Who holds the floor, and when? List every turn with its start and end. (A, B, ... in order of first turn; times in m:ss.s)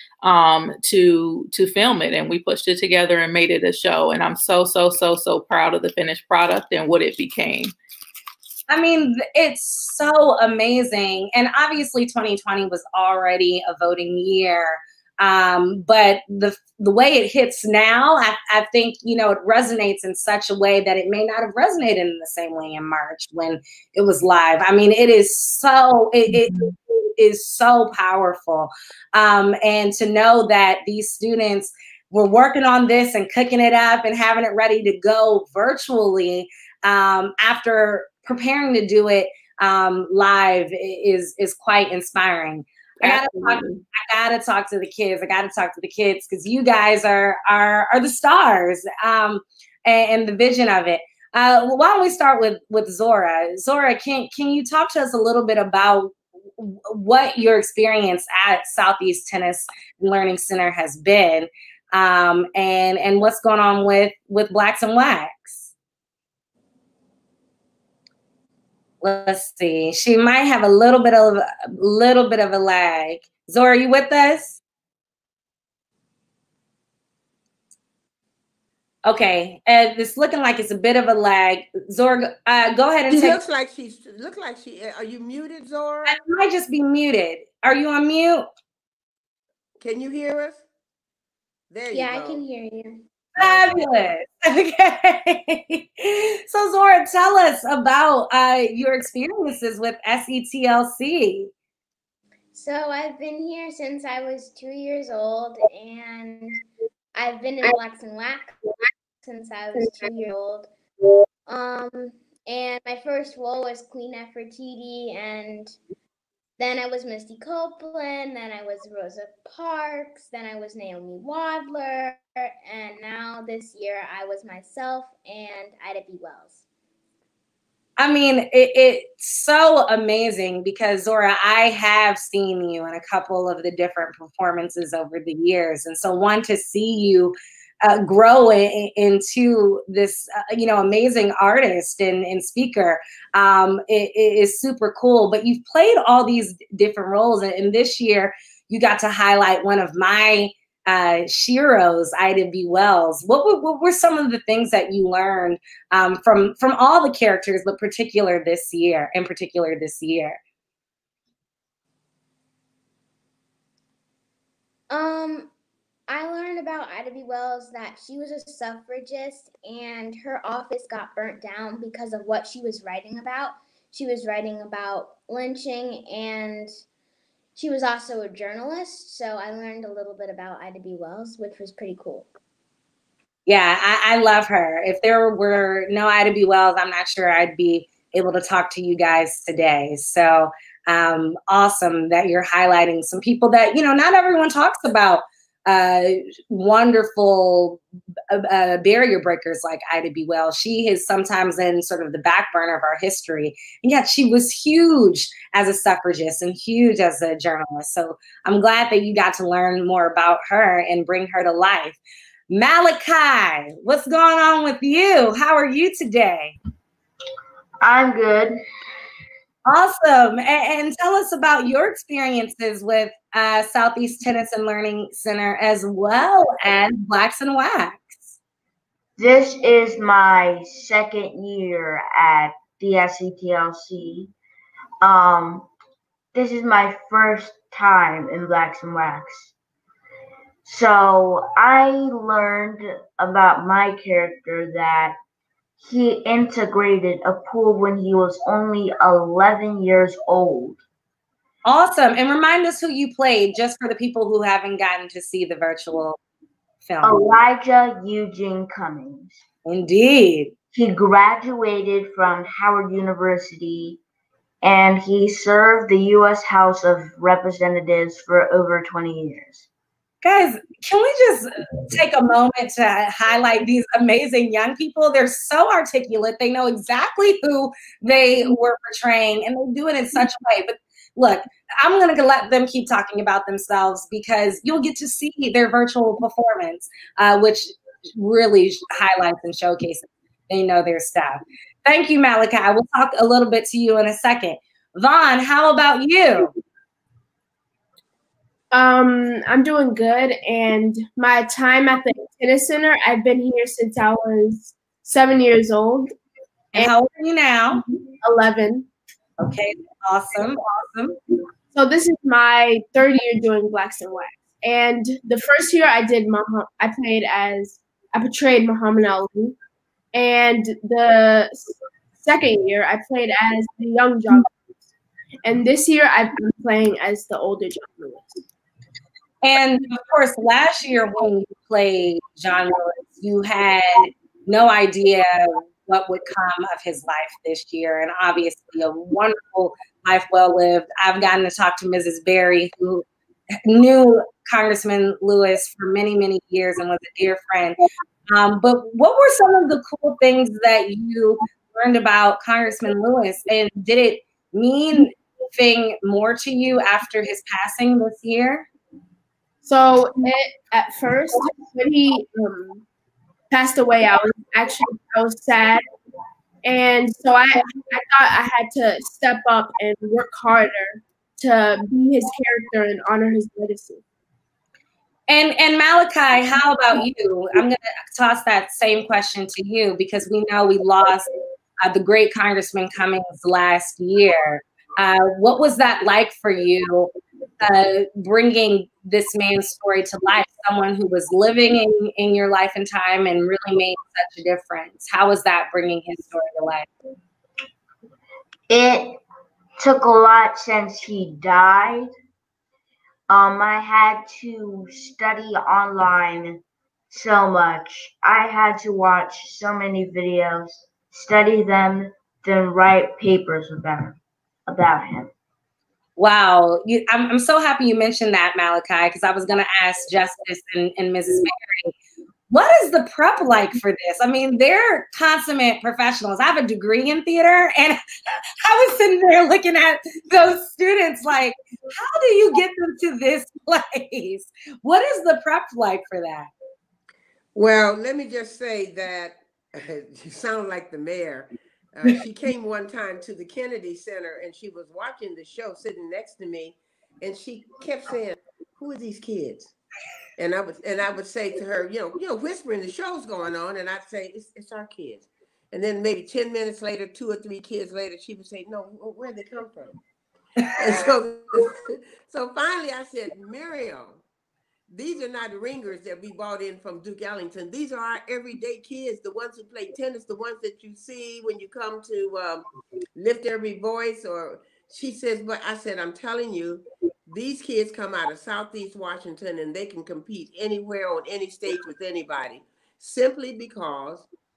0:00.2-0:07.7 A
0:08.7-1:05.7 B
0:43.0-0:43.5 C
1:09.0-1:14.6 B
1:19.1-1:23.4 B
1:23.1-1:26.2 C
1:26.1-1:28.5 B
1:29.8-1:30.6 C
1:31.7-1:32.4 C
1:31.9-1:33.0 D
1:33.4-1:41.5 B
1:42.5-1:46.6 D
1:47.2-1:48.6 D
1:49.2-1:50.7 D
1:51.5-1:55.8 D
1:56.6-2:06.6 D
2:08.0-2:40.4 B
2:44.9-2:45.5 D
2:46.1-2:56.7 D
2:57.6-3:02.3 D
3:03.5-3:32.0 B
3:32.5-3:36.6 B
3:37.8-3:38.6 E
3:39.7-3:48.3 B
3:49.2-3:54.3 E
3:55.0-3:55.7 E
3:56.3-3:59.5 E
4:00.6-4:05.2 E
4:05.8-4:10.8 E
4:11.6-4:16.2 B
4:16.9-4:17.2 B
4:17.0-4:19.4 E
4:19.7-4:20.5 B
4:20.7-4:24.0 E
4:24.6-4:29.7 E
4:30.2-4:56.5 B
4:58.7-5:06.1 F
5:06.8-5:07.8 B
5:08.2-5:08.9 F
5:09.4-5:11.2 B
5:11.7-5:19.6 F
5:20.1-5:24.5 F
5:25.4-5:28.4 F
5:29.4-5:43.0 B
5:43.6-5:58.7 B
5:59.6-6:02.8 F
6:03.5-6:05.8 F
6:06.6-6:14.0 F
6:15.3-6:21.3 B
6:21.8-6:36.9 B
6:38.7-6:39.2 E
6:39.8-6:42.1 E
6:43.3-6:55.3 E
6:56.2-7:01.9 B
7:02.5-7:08.0 B
7:08.6-7:16.5 B
7:17.6-7:29.7 C
7:30.4-7:40.0 C
7:40.7-7:44.2 C
7:44.9-7:52.6 C
7:53.2-8:04.3 C